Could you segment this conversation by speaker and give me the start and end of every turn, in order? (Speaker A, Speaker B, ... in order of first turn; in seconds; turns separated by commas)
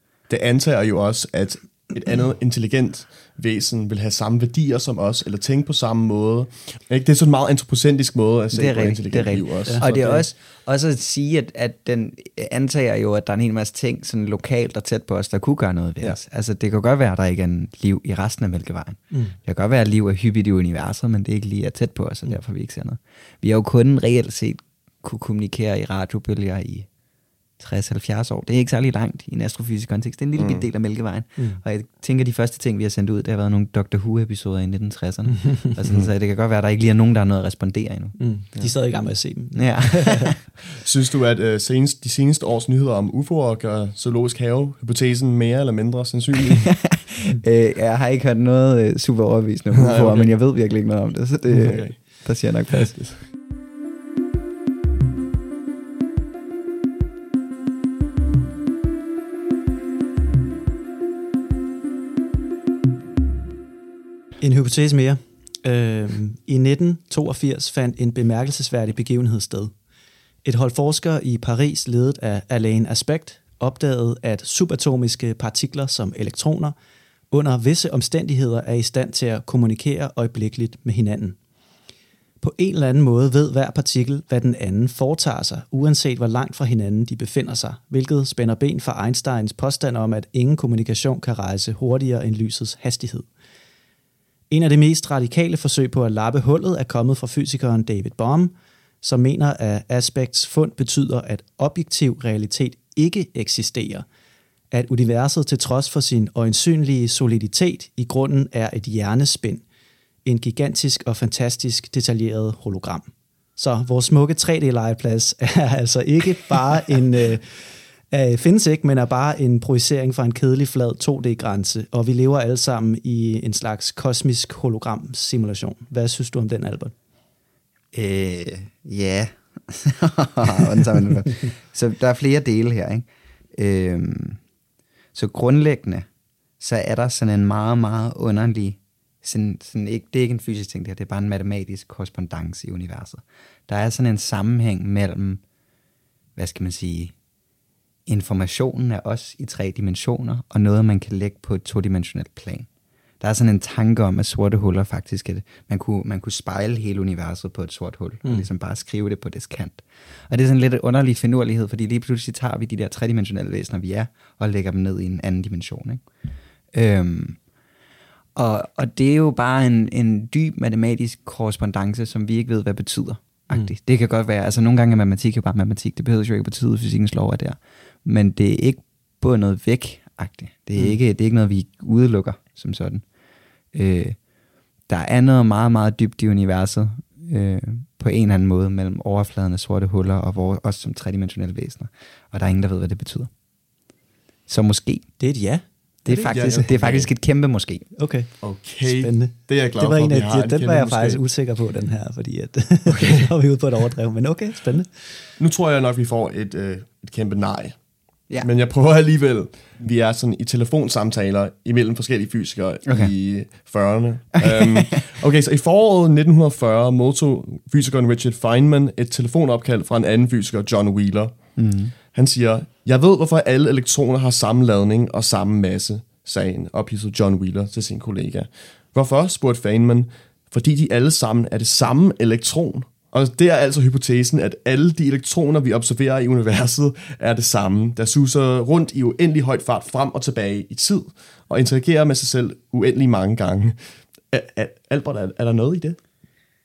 Speaker A: 0.3-10.2, Speaker B: 8.5-26.9, Speaker C: 19.1-19.4, Speaker B: 27.6-38.7, Speaker A: 30.4-30.7, Speaker C: 38.2-40.3, Speaker B: 39.5-40.5, Speaker A: 40.8-46.8, Speaker B: 46.5-53.2, Speaker A: 49.7-50.4, Speaker A: 51.5-52.2, Speaker C: 64.4-69.7, Speaker C: 70.4-76.7, Speaker C: 77.3-81.4, Speaker C: 82.4-93.3, Speaker C: 94.5-104.1, Speaker C: 104.7-109.6, Speaker C: 110.2-126.9, Speaker B: 127.9-134.4, Speaker B: 135.1-136.1, Speaker B: 136.6-145.4, Speaker B: 146.4-147.2, Speaker B: 148.1-152.7, Speaker B: 153.2-166.0, Speaker B: 166.7-167.4, Speaker B: 168.4-183.0, Speaker B: 183.7-184.2, Speaker B: 184.9-193.3, Speaker B: 194.5-195.1, Speaker C: 195.2-196.7, Speaker B: 196.1-197.9, Speaker A: 196.3-197.1, Speaker C: 198.0-205.2, Speaker A: 198.4-201.2, Speaker A: 205.4-207.8, Speaker A: 208.4-243.8, Speaker B: 212.9-213.1, Speaker B: 214.5-214.8, Speaker B: 221.6-221.9, Speaker A: 244.3-246.0